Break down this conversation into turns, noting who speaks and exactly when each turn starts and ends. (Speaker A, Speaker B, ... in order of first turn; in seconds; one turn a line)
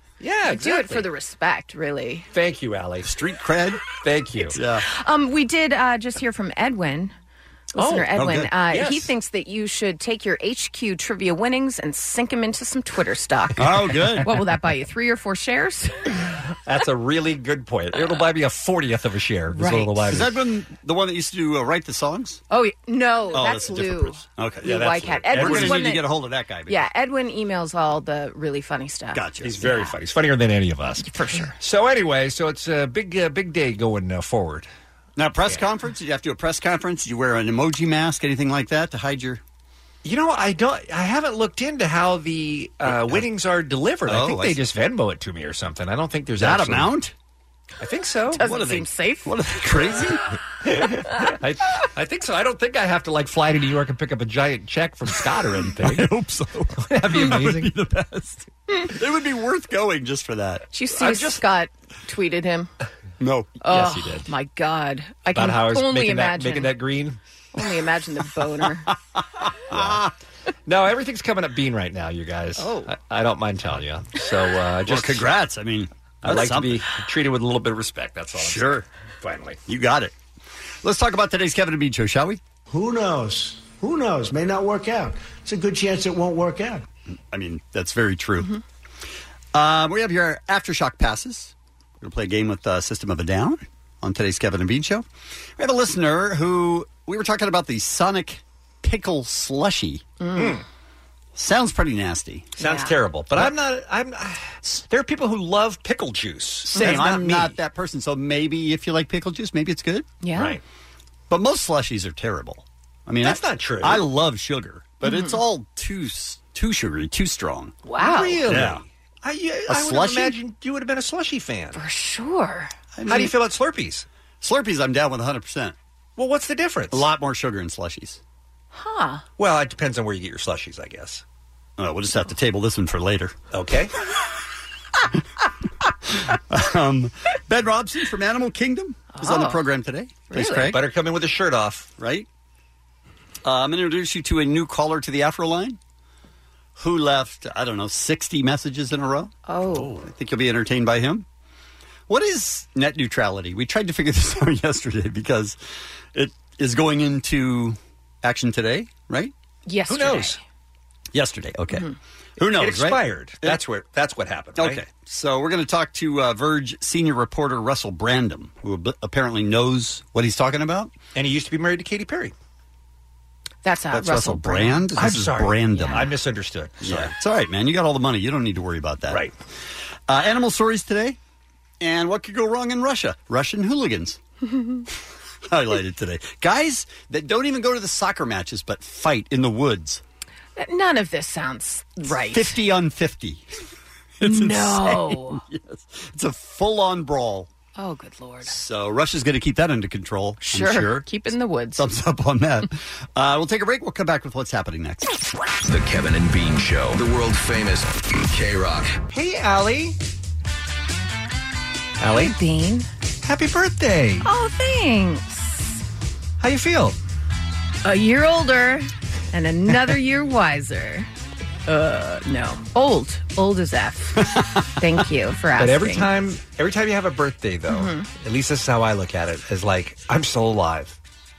Speaker A: 0.2-1.1
Speaker B: 0.5-2.3
Speaker A: 2.3-3.1
Speaker C: 3.0-3.8
Speaker A: 4.0-4.6
Speaker B: 4.4-7.1
Speaker C: 4.5-4.8
Speaker B: 7.7-16.3
Speaker A: 7.8-8.1
Speaker C: 8.1-8.5
Speaker A: 8.7-9.1
Speaker C: 13.6-14.3
Speaker A: 16.7-20.4
Speaker B: 19.5-20.0
Speaker C: 20.1-22.4
Speaker B: 22.5-26.1
Speaker C: 23.3-24.7
Speaker A: 24.6-26.0
Speaker C: 25.3-26.8
Speaker B: 26.7-29.9
Speaker C: 29.1-29.7
Speaker A: 29.4-34.7
Speaker B: 31.0-31.6
Speaker C: 35.2-39.4
Speaker A: 40.0-46.9
Speaker C: 42.8-43.3
Speaker C: 44.1-44.6
Speaker C: 46.4-47.1
Speaker A: 47.8-48.4
Speaker B: 48.3-49.3
Speaker C: 48.4-50.2
Speaker A: 50.6-56.1
Speaker C: 55.7-60.7
Speaker A: 56.8-57.7
Speaker B: 60.7-62.7
Speaker A: 61.0-61.4
Speaker C: 63.2-63.6
Speaker B: 63.6-66.7
Speaker A: 63.7-64.2
Speaker A: 65.3-67.2
Speaker B: 67.5-68.9
Speaker A: 69.7-70.0
Speaker C: 69.7-70.1
Speaker A: 70.7-75.3
Speaker B: 72.6-72.9
Speaker C: 74.9-76.8
Speaker A: 76.2-79.6
Speaker C: 78.4-78.8
Speaker C: 79.7-80.1
Speaker C: 80.8-82.4
Speaker D: 82.7-86.8
Speaker C: 87.3-88.5
Speaker C: 89.5-95.0
Speaker C: 95.6-100.0
Speaker B: 100.2-100.6
Speaker A: 100.4-100.6
Speaker C: 101.3-102.5
Speaker B: 102.6-103.0
Speaker A: 102.6-107.5
Speaker C: 106.7-110.1
Speaker B: 106.7-107.0
Speaker B: 110.2-110.6
Speaker A: 110.3-110.6
Speaker C: 111.3-117.8
Speaker A: 113.2-114.1
Speaker B: 115.0-115.4
Speaker B: 117.9-118.5
Speaker A: 118.0-121.8
Speaker C: 118.5-118.8
Speaker C: 119.7-120.4
Speaker B: 121.7-122.7
Speaker C: 123.0-123.3
Speaker A: 123.1-124.1
Speaker C: 124.4-125.8
Speaker A: 126.2-127.1
Speaker C: 126.9-128.2
Speaker B: 128.7-129.2
Speaker A: 129.4-131.2
Speaker C: 131.8-133.3
Speaker A: 133.5-133.9
Speaker C: 136.3-140.8
Speaker B: 139.1-139.6
Speaker B: 140.3-140.7
Speaker A: 140.7-141.9
Speaker C: 142.0-142.2
Speaker C: 143.4-145.8
Speaker C: 146.8-149.3
Speaker B: 149.5-149.9
Speaker A: 149.7-150.1
Speaker C: 150.0-151.2
Speaker C: 152.1-155.6
Speaker C: 156.1-159.3
Speaker B: 159.7-160.4
Speaker A: 159.9-160.4
Speaker C: 161.1-163.6
Speaker A: 162.4-164.8
Speaker C: 164.6-170.9
Speaker A: 171.1-172.3
Speaker B: 173.6-174.9
Speaker C: 173.9-176.1
Speaker A: 175.0-177.1
Speaker B: 175.8-176.1
Speaker C: 176.8-179.2
Speaker C: 180.1-181.2
Speaker C: 181.8-184.2
Speaker B: 184.5-184.8
Speaker C: 185.5-190.0
Speaker B: 190.6-192.6
Speaker C: 192.1-193.5
Speaker C: 194.2-197.5
Speaker B: 194.2-195.4
Speaker B: 197.8-198.6
Speaker C: 198.5-201.1
Speaker B: 200.4-201.9
Speaker C: 201.8-205.2
Speaker E: 205.6-208.9
Speaker A: 209.1-210.0
Speaker A: 212.0-212.3
Speaker B: 212.1-212.9
Speaker A: 213.2-214.3
Speaker B: 214.2-215.8
Speaker A: 216.4-217.0
Speaker B: 217.8-221.1
Speaker B: 221.7-226.1
Speaker C: 224.2-224.7
Speaker A: 225.6-231.0
Speaker B: 227.7-228.1